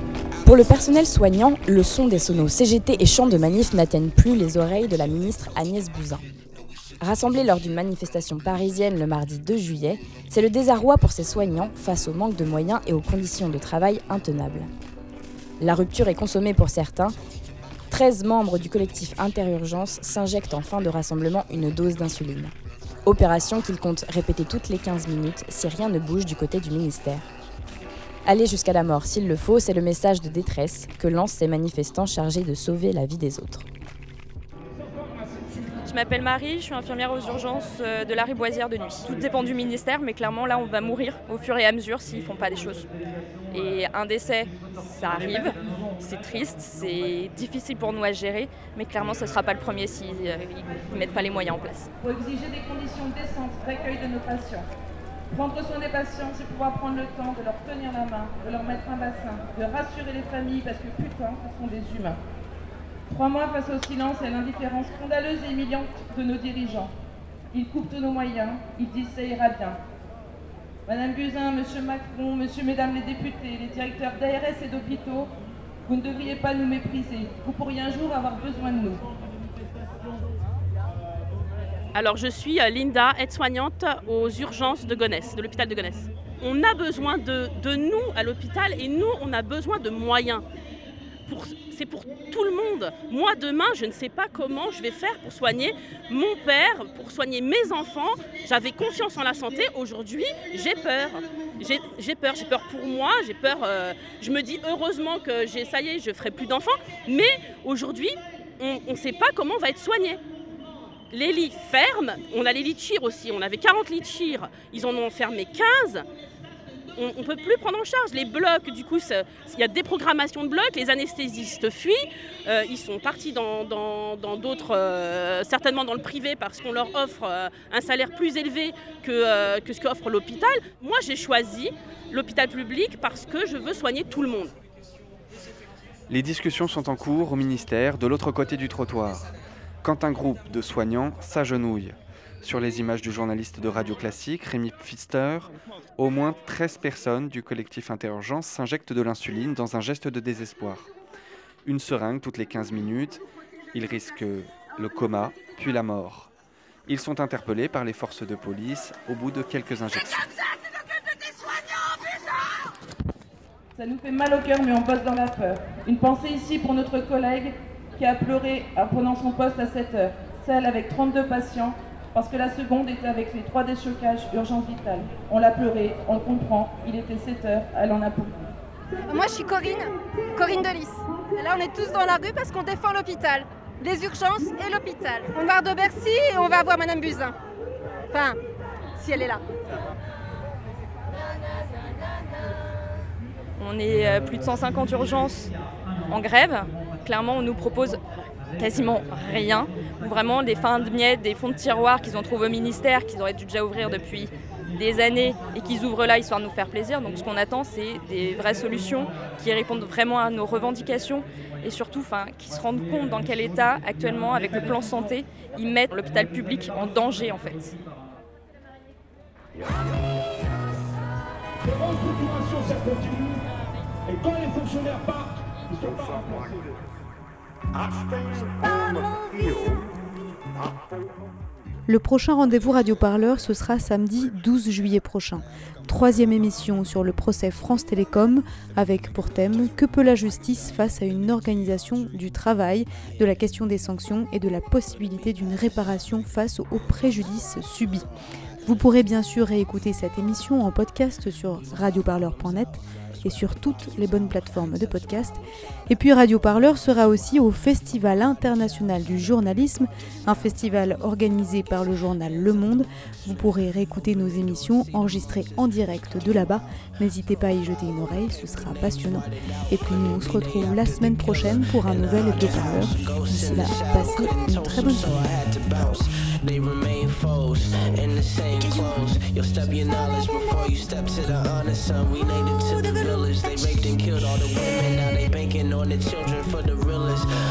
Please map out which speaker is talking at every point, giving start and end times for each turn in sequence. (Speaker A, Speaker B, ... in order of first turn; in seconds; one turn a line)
Speaker A: 0.4-6.2
Speaker A: 7.0-14.7
Speaker A: 15.6-17.2
Speaker A: 17.9-22.5
Speaker A: 23.1-27.3
Speaker A: 28.3-33.7
Speaker B: 35.5-42.9
Speaker B: 43.5-51.9
Speaker C: 52.0-54.7
Speaker C: 55.3-62.2
Speaker C: 63.1-66.9
Speaker C: 67.5-69.8
Speaker C: 70.9-75.3
Speaker C: 75.8-79.1
Speaker D: 81.9-90.5
Speaker D: 91.3-110.2
Speaker D: 111.1-116.1
Speaker D: 117.0-134.5
Speaker E: 136.1-139.3
Speaker E: 139.8-150.9
Speaker E: 151.7-153.2
Speaker E: 153.7-156.3
Speaker E: 156.9-160.3
Speaker C: 163.8-178.5
Speaker F: 179.1-187.3
Speaker F: 188.1-188.4
Speaker F: 189.0-189.4
Speaker B: 193.6-195.5
Speaker B: 196.1-198.0
Speaker B: 198.6-217.8
Speaker G: 221.7-223.4
Speaker G: 224.1-226.6
Speaker H: 231.9-248.1
Speaker H: 248.7-275.5
Speaker E: 275.6-287.2